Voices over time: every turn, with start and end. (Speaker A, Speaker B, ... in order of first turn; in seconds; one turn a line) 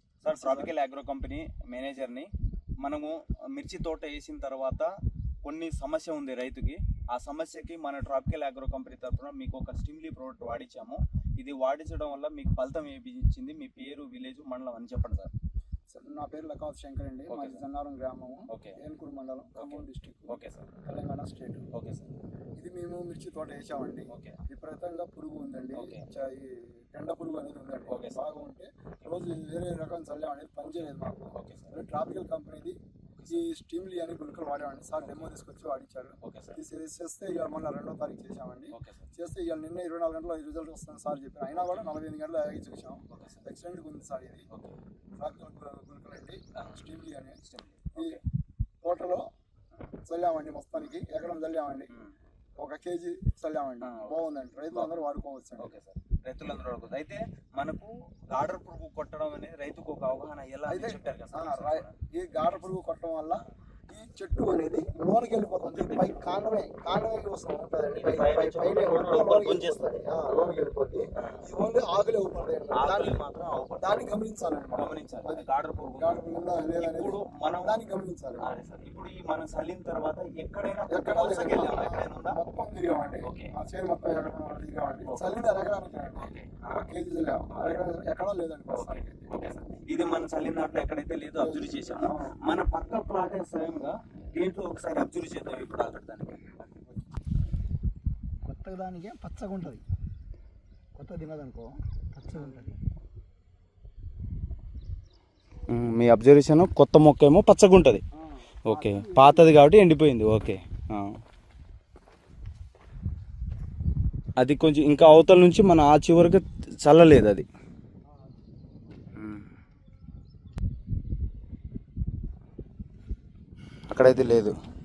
Speaker A: 0.2-2.3
Speaker B: 0.2-0.7
Speaker A: 2.8-15.3
Speaker B: 15.9-21.7
Speaker A: 17.3-17.6
Speaker A: 18.5-18.8
Speaker A: 19.6-20.7
Speaker A: 21.7-22.1
Speaker B: 22.5-32.8
Speaker A: 24.1-24.4
Speaker A: 25.8-26.0
Speaker A: 27.9-28.2
Speaker A: 31.3-31.7
Speaker A: 33.1-33.4
Speaker B: 33.3-44.5
Speaker A: 35.0-35.2
Speaker A: 36.2-36.6
Speaker A: 38.7-39.1
Speaker A: 41.5-41.9
Speaker A: 43.1-43.4
Speaker A: 44.5-44.8
Speaker B: 45.2-47.4
Speaker A: 46.5-46.8
Speaker A: 47.4-48.2
Speaker B: 47.9-48.2
Speaker B: 48.8-49.3
Speaker B: 50.0-51.9
Speaker B: 52.6-55.7
Speaker A: 53.8-55.0
Speaker A: 55.6-62.6
Speaker B: 60.7-73.2
Speaker A: 65.6-66.1
Speaker A: 67.9-69.9
Speaker A: 71.2-71.4
Speaker A: 72.7-74.0
Speaker B: 73.8-75.5
Speaker A: 74.8-76.2
Speaker B: 76.0-78.5
Speaker A: 76.8-77.8
Speaker A: 78.4-82.4
Speaker B: 80.9-89.2
Speaker A: 83.2-83.5
Speaker A: 85.0-85.3
Speaker A: 86.2-86.7
Speaker A: 88.7-96.6
Speaker B: 91.4-92.3
Speaker B: 98.5-99.8
Speaker B: 101.0-102.8
Speaker A: 105.7-108.0
Speaker B: 108.2-109.6
Speaker A: 108.7-111.2
Speaker A: 114.4-117.5
Speaker A: 119.2-119.5
Speaker A: 123.9-124.5